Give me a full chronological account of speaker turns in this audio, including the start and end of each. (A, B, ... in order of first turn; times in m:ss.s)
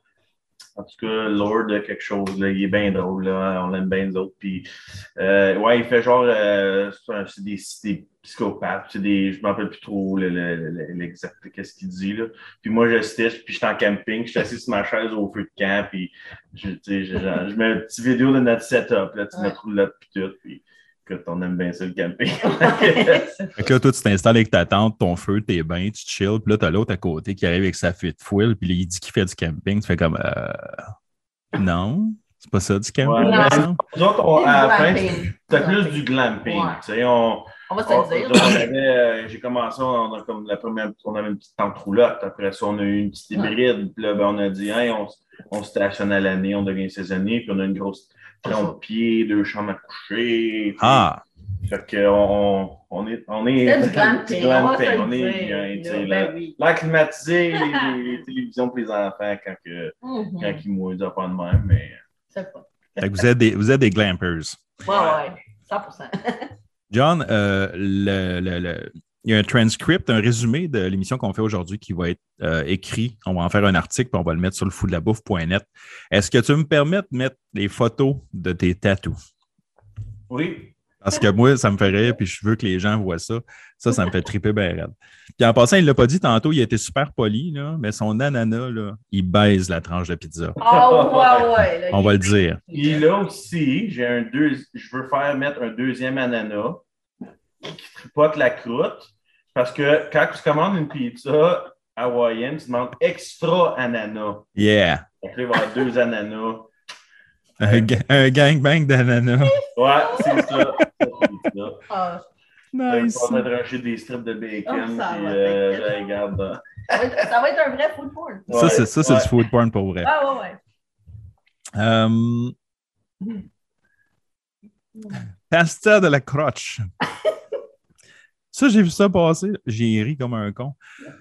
0:00.8-0:23.2 A
0:22.4-0:23.7 B
0:23.6-0:30.9 C
0:31.6-0:33.8 C
0:33.0-0:51.1 A
0:33.2-0:33.8 B
0:34.4-0:36.8 B
0:37.7-0:38.7 B
0:48.4-0:48.7 B
0:50.8-0:51.2 C
0:51.7-1:02.0 A
0:53.6-0:56.6 B
0:57.6-0:57.9 B
1:00.0-1:00.6 B
1:02.3-1:03.0 B
1:03.0-1:04.6 C
1:04.8-1:06.5 B
1:04.9-1:05.2 A
1:06.9-1:19.2 C
1:20.3-1:20.8 A
1:21.0-1:30.6 C
1:30.6-1:31.6 A
1:30.6-1:33.1 B
1:31.9-1:32.6 C
1:32.7-1:36.8 A
1:37.6-1:44.5 A
1:44.6-1:45.0 C
1:45.2-1:46.7 A
1:47.6-1:49.6 C
1:47.6-1:47.9 A
1:49.5-1:50.8 B
1:49.8-1:51.9 A
1:51.9-1:52.2 B
1:52.7-1:53.4 C
1:52.9-1:57.2 A
1:54.7-1:56.2 B
1:56.9-1:58.9 B
1:58.5-1:59.3 A
1:58.5-2:00.1 C
2:00.0-2:00.6 B
2:01.8-2:02.6 C
2:05.0-2:05.2 B
2:05.5-2:06.9 C
2:08.5-2:10.8 C